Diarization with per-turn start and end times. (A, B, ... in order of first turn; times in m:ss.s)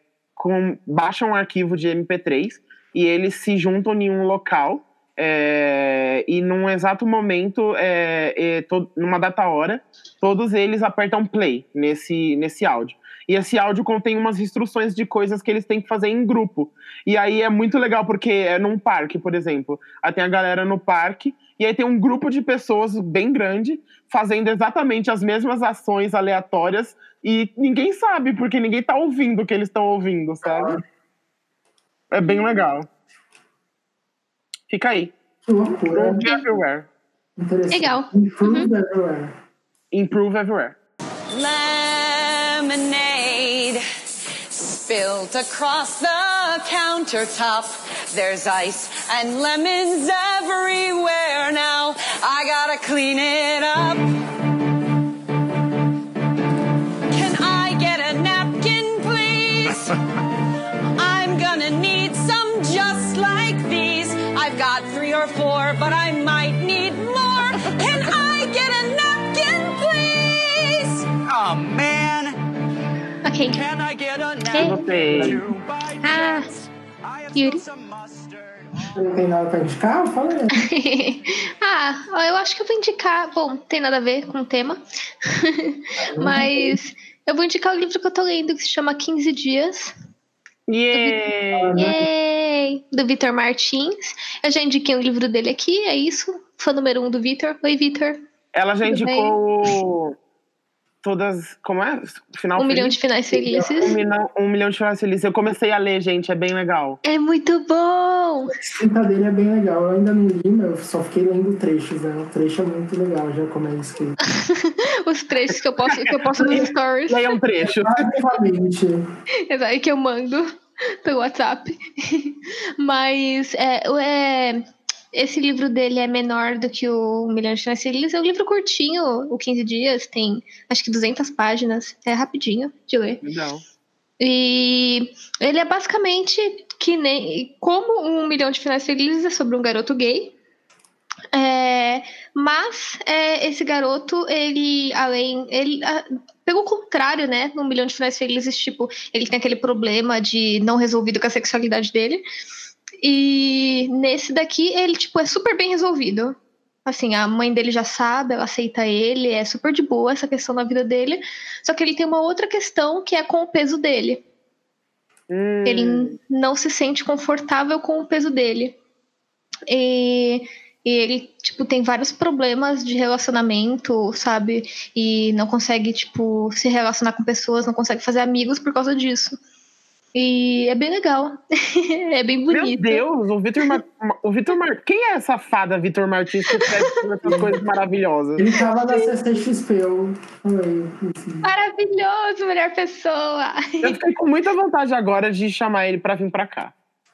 0:00.4-0:30.7 A
0:30.4-0:30.8 B
0:32.1-0:32.9 A
0:34.7-0:35.1 A
0:35.4-0:36.3 B
0:35.9-0:36.9 A
0:37.4-0:39.4 B
0:37.7-0:38.7 C
0:39.9-0:40.8 A
0:41.3-0:43.8 D
0:44.5-0:54.1 D
0:57.1-1:00.0 D
1:01.0-1:11.1 D
1:11.2-1:12.4 E
1:13.2-1:13.6 C
1:13.4-1:19.0 E
1:14.5-1:14.8 C
1:14.5-1:15.4 A
1:15.1-1:15.4 B
1:16.0-1:16.5 C
1:17.4-1:17.6 C
1:18.9-1:20.5 B
1:20.5-1:29.9 C
1:26.0-1:26.8 B
1:30.7-1:31.8 A
1:30.9-1:31.2 C
1:31.5-1:32.1 B
1:31.7-1:38.2 C
1:38.5-1:40.1 A
1:38.8-1:39.7 C
1:41.0-1:43.0 A
1:42.6-1:43.9 C
1:43.3-1:44.0 B
1:43.8-1:47.0 A
1:47.0-1:48.5 C
1:48.5-1:54.2 B
1:54.2-1:57.4 C
1:56.4-1:58.1 A
1:57.6-1:59.1 B
1:59.5-2:13.2 C
2:13.2-2:13.6 A
2:14.2-2:20.4 C
2:21.3-2:32.2 C
2:33.0-2:44.2 C
2:45.3-2:46.1 A
2:45.6-2:48.8 C
2:49.7-2:59.4 C
3:00.1-3:03.0 C
3:02.5-3:08.5 A
3:06.5-3:07.4 C
3:07.2-3:07.5 B
3:08.4-3:11.5 B
3:11.4-3:14.0 C
3:13.8-3:16.7 A